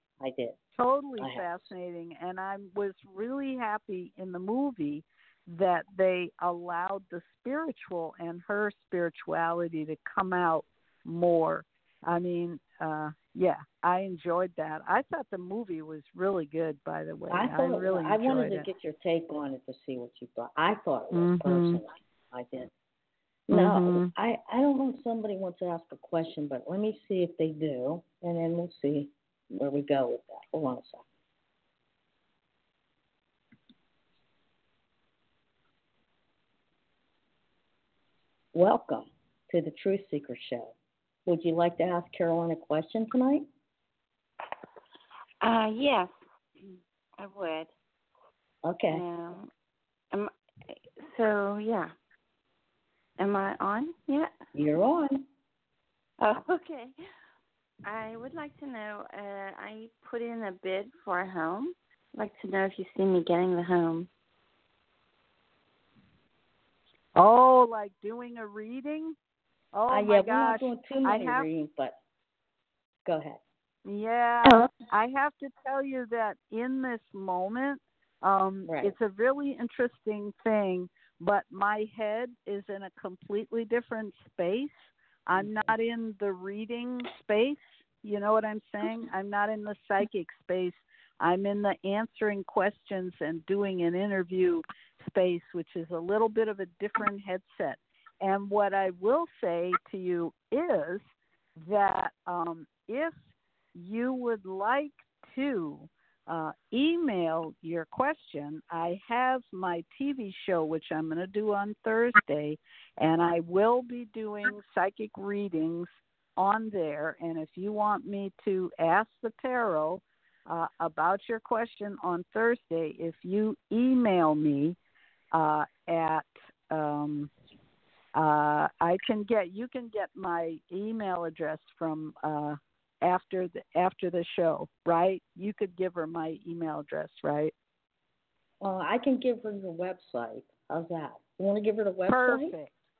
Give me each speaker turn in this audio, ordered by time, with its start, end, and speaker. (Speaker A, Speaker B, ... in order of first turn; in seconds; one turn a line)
Speaker A: 0.2-0.6
Speaker B: 0.8-18.7
Speaker A: 1.2-1.7
Speaker A: 17.3-22.7
Speaker B: 21.1-21.8
Speaker A: 23.5-31.0
Speaker B: 23.5-24.1
Speaker A: 38.5-40.7
Speaker A: 41.2-43.5
Speaker C: 45.4-46.1
Speaker C: 46.6-47.7
Speaker A: 48.6-49.0
Speaker C: 48.9-49.5
Speaker C: 50.1-51.9
Speaker C: 53.2-54.3
Speaker A: 54.5-55.2
Speaker C: 56.2-57.0
Speaker C: 57.8-64.1
Speaker B: 67.2-69.2
Speaker B: 69.7-71.5
Speaker A: 69.9-72.0
Speaker A: 73.0-73.4
Speaker B: 73.8-101.0
Speaker A: 78.7-79.0
Speaker A: 85.3-85.7
Speaker B: 101.5-103.2
Speaker B: 103.7-124.8
Speaker B: 125.3-127.3
Speaker B: 128.1-137.5
Speaker A: 138.6-142.6
Speaker B: 142.1-142.7